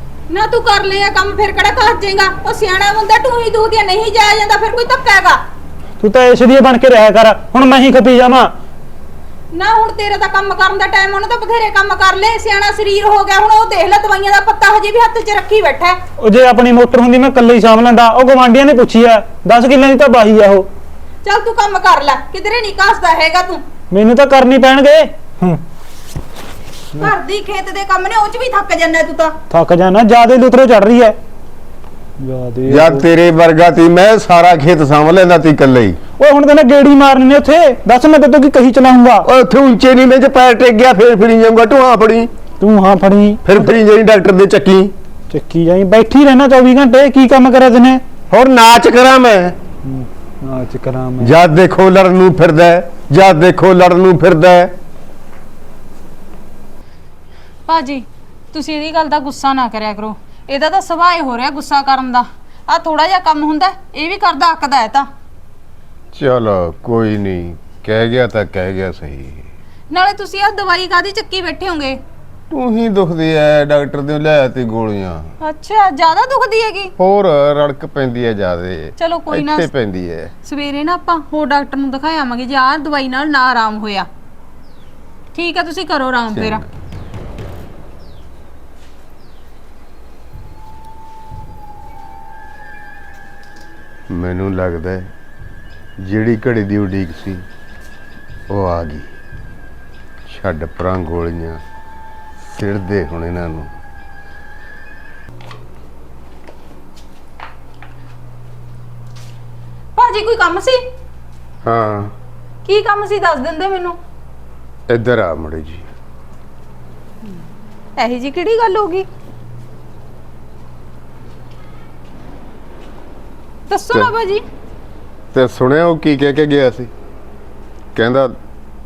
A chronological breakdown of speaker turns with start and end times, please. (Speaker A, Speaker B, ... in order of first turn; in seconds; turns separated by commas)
Speaker A: 0.3-5.4, Speaker B: 6.0-8.5, Speaker A: 9.5-16.0, Speaker B: 16.2-20.7, Speaker A: 21.2-23.6, Speaker B: 23.9-25.6, Speaker A: 27.0-29.4, Speaker B: 29.5-31.2, Speaker B: 32.2-33.0, Speaker C: 32.7-36.0, Speaker B: 36.2-39.3, Speaker C: 39.2-42.3, Speaker B: 42.6-43.7, Speaker C: 43.5-44.9, Speaker B: 45.3-48.1, Speaker C: 48.3-49.6, Speaker B: 49.8-51.3, Speaker C: 51.2-54.8, Speaker A: 57.7-65.1, Speaker C: 66.1-69.5, Speaker A: 69.9-72.0, Speaker C: 72.5-75.3, Speaker A: 75.4-76.9, Speaker C: 77.0-80.3, Speaker A: 79.0-79.7, Speaker A: 80.5-84.1, Speaker A: 85.3-86.6, Speaker C: 86.3-86.7, Speaker C: 94.1-95.1, Speaker C: 96.0-97.5, Speaker C: 98.5-99.1, Speaker C: 100.3-101.6, Speaker C: 102.4-103.7, Speaker A: 110.0-110.8, Speaker C: 111.6-112.1, Speaker A: 112.7-114.0, Speaker C: 114.9-115.9, Speaker A: 118.0-119.1, Speaker A: 123.7-124.4, Speaker C: 125.3-126.9, Speaker C: 128.0-128.4